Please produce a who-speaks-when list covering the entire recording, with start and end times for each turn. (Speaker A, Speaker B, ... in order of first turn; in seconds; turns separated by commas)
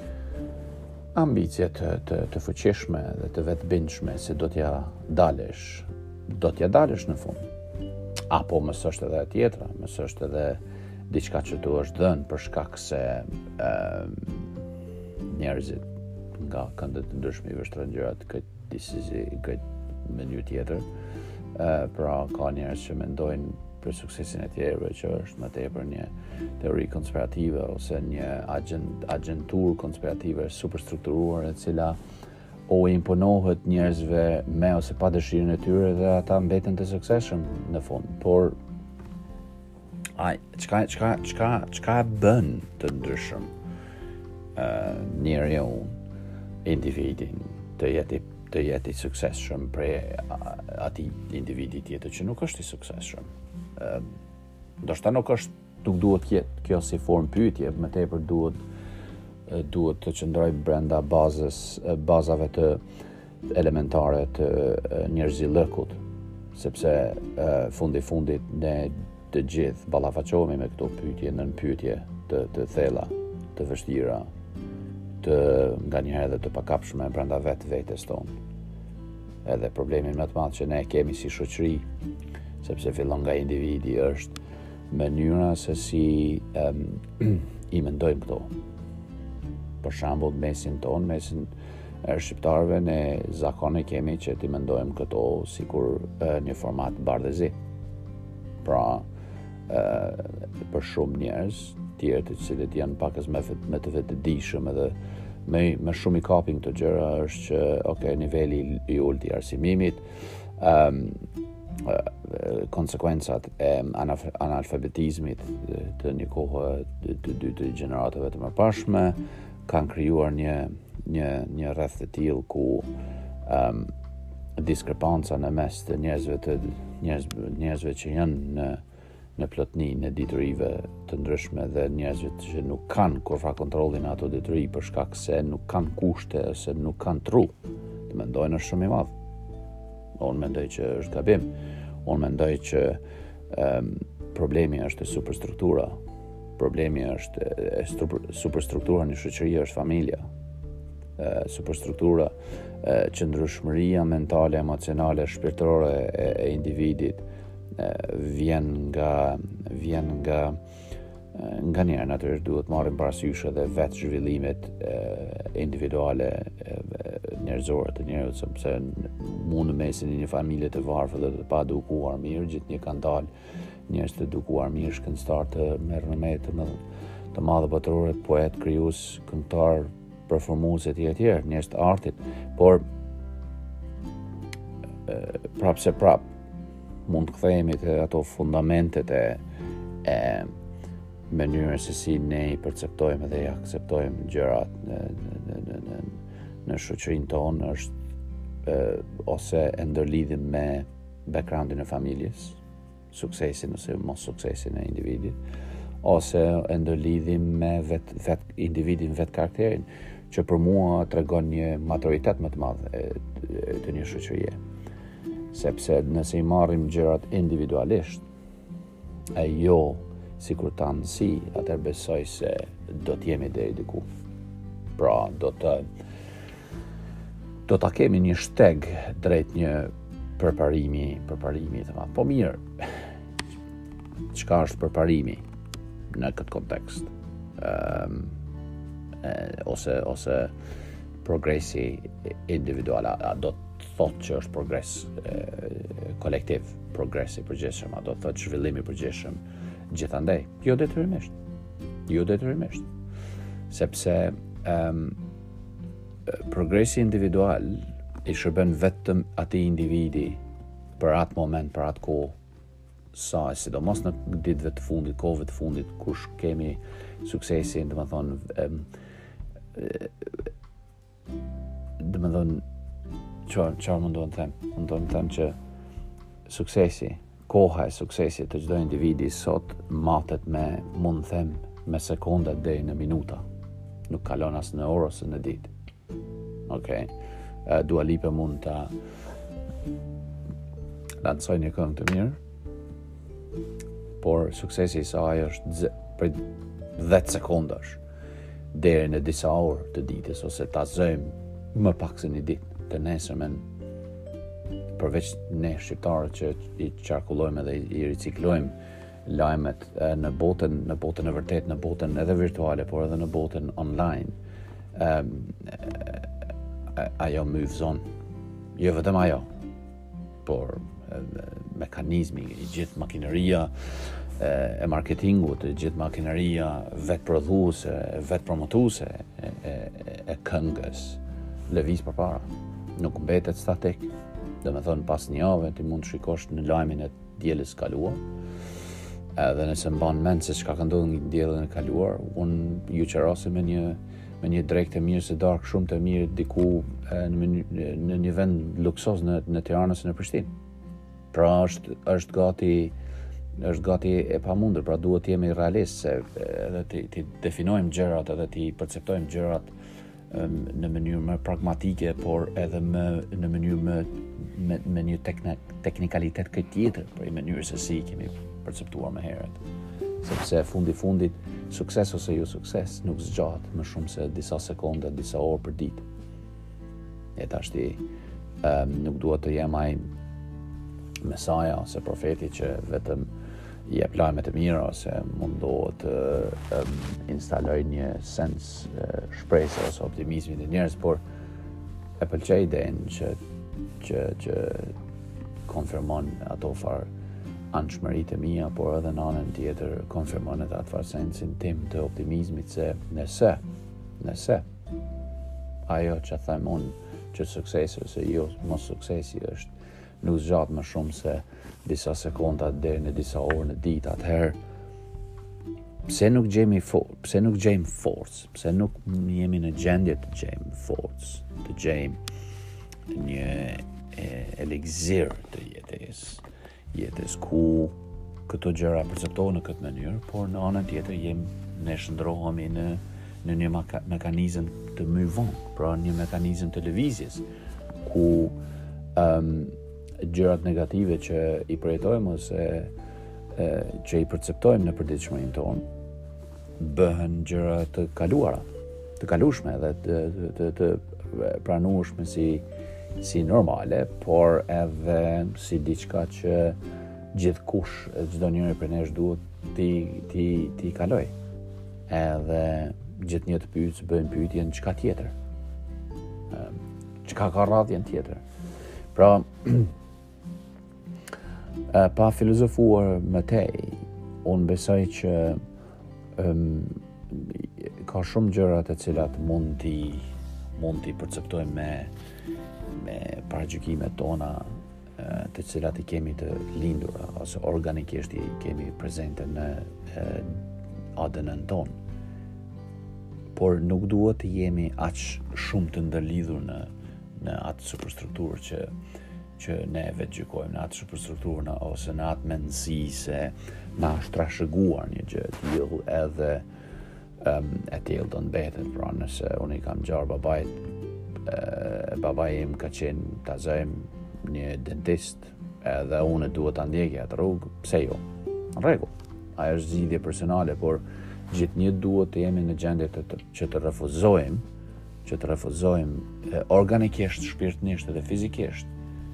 Speaker A: 1.1-7.4, Speaker A: 8.3-14.5, Speaker A: 15.3-15.8, Speaker A: 16.4-20.9, Speaker A: 21.6-32.0, Speaker A: 32.7-38.6, Speaker A: 40.2-43.5, Speaker A: 44.6-46.0, Speaker A: 46.6-54.1, Speaker A: 54.8-58.6, Speaker A: 59.5-62.8, Speaker A: 63.5-66.0, Speaker A: 66.5-74.3, Speaker A: 75.2-78.3, Speaker A: 79.5-81.8, Speaker A: 82.6-84.3, Speaker A: 84.9-88.5, Speaker A: 89.8-91.5, Speaker A: 92.0-97.6, Speaker A: 98.6-99.1, Speaker A: 99.7-105.0, Speaker A: 105.5-111.2, Speaker A: 111.8-122.9, Speaker A: 123.5-123.9, Speaker A: 124.6-128.8, Speaker A: 129.4-137.5, Speaker A: 138.1-139.1, Speaker A: 140.2-141.5, Speaker A: 142.1-146.0, Speaker A: 146.6-150.3, Speaker A: 151.2-160.6, Speaker A: 161.3-173.3, Speaker A: 173.9-176.8, Speaker A: 177.3-182.8, Speaker A: 185.1-186.3, Speaker A: 187.1-189.4, Speaker A: 190.0-190.6, Speaker A: 191.3-197.9, Speaker A: 198.7-202.6, Speaker A: 203.1-205.4, Speaker A: 206.0-214.6, Speaker A: 215.5-218.2, Speaker A: 219.3-224.1, Speaker A: 225.0-225.9, Speaker A: 227.7-232.9, Speaker A: 234.3-235.4, Speaker A: 236.1-238.4, Speaker A: 239.2-240.5, Speaker A: 241.2-249.4, Speaker A: 249.9-251.3, Speaker A: 252.1-252.9, Speaker A: 253.7-255.2, Speaker A: 256.3-260.4, Speaker A: 261.0-262.4, Speaker A: 263.1-268.9, Speaker A: 269.7-270.3, Speaker A: 272.0-272.6, Speaker A: 273.5-275.6, Speaker A: 276.5-283.4, Speaker A: 284.1-285.7, Speaker A: 286.7-287.1, Speaker A: 287.7-288.9, Speaker A: 291.2-292.4, Speaker A: 294.2-296.4, Speaker A: 297.0-298.0, Speaker A: 298.7-303.6, Speaker A: 305.0-308.8, Speaker A: 309.3-314.3, Speaker A: 314.9-316.2, Speaker A: 316.9-318.0, Speaker A: 318.8-319.5, Speaker A: 320.4-334.1, Speaker A: 334.6-338.2, Speaker A: 339.4-350.5, Speaker A: 351.3-352.9, Speaker A: 353.6-359.7, Speaker A: 360.3-369.6, Speaker A: 370.2-376.0, Speaker A: 377.4-378.0, Speaker A: 378.6-380.1, Speaker A: 381.2-383.3, Speaker A: 383.9-391.2, Speaker A: 392.2-393.4, Speaker A: 394.0-394.9, Speaker A: 395.7-397.1, Speaker A: 397.7-403.6, Speaker A: 404.2-404.7, Speaker A: 405.9-414.6, Speaker A: 416.1-422.2, Speaker A: 423.1-428.0, Speaker A: 428.5-437.4, Speaker A: 438.0-438.6, Speaker A: 439.1-442.9, Speaker A: 443.5-445.9, Speaker A: 446.8-448.7, Speaker A: 449.2-452.6, Speaker A: 453.2-456.8, Speaker A: 457.3-461.3, Speaker A: 462.1-465.3, Speaker A: 466.5-468.4, Speaker A: 469.1-469.9, Speaker A: 471.9-475.6, Speaker A: 476.4-480.2, Speaker A: 480.8-482.1, Speaker A: 482.9-490.6, Speaker A: 491.2-492.0, Speaker A: 493.6-498.9, Speaker A: 499.6-506.7, Speaker A: 507.4-510.8, Speaker A: 511.4-518.2, Speaker A: 518.8-524.6, Speaker A: 525.2-528.9